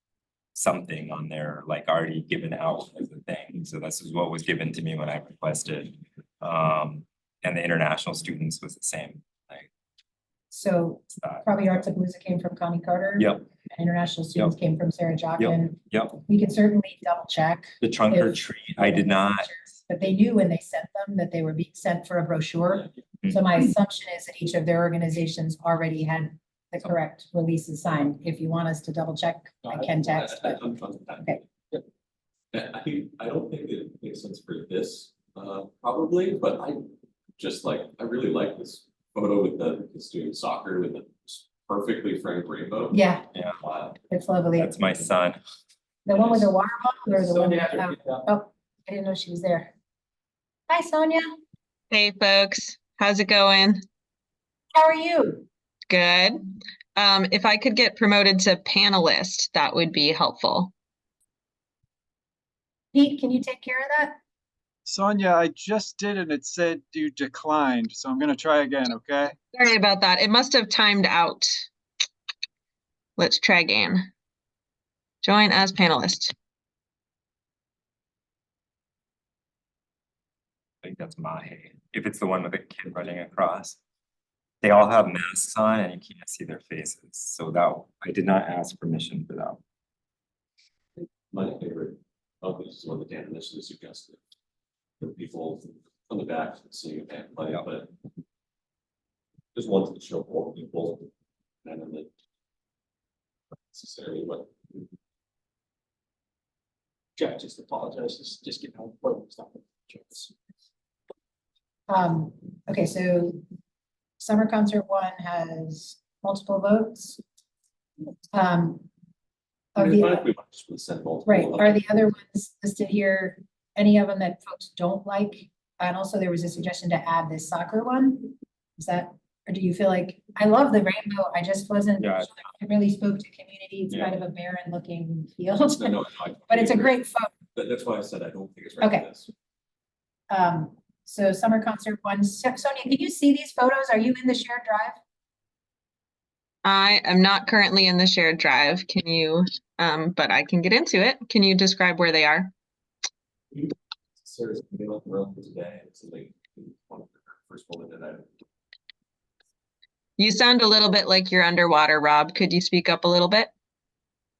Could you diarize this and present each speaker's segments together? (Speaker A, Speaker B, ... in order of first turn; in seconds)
Speaker A: 0.5-9.7, 11.2-11.8, 13.2-13.4, 15.4-16.2, 17.8-19.5, 43.3-43.6, 44.6-45.4, 80.8-83.8, 84.6-89.6, 132.0-132.4, 133.9-134.2
Speaker B: 10.5-30.7, 42.9-43.3, 44.1-44.8, 46.0-49.7, 50.7-51.4, 54.7-55.5, 62.9-64.2, 111.9-113.4, 114.2-117.2, 118.3-118.9, 119.8-120.2, 121.2-137.3, 138.8-139.1, 140.3-145.0
Speaker C: 30.0-31.4, 32.5-36.8, 37.4-43.0, 43.6-44.0, 91.3-94.2, 95.0-97.9, 99.5-101.1, 101.6-102.1, 103.5-104.5, 119.8-121.8, 135.7-137.0, 137.5-139.3, 153.5-158.3
Speaker D: 51.9-53.8, 55.9-56.4, 57.0-60.7, 69.5-71.6, 73.2-74.1, 75.2-76.3, 146.6-152.5, 160.2-163.5
Speaker E: 64.8-69.3
Speaker F: 107.2-110.3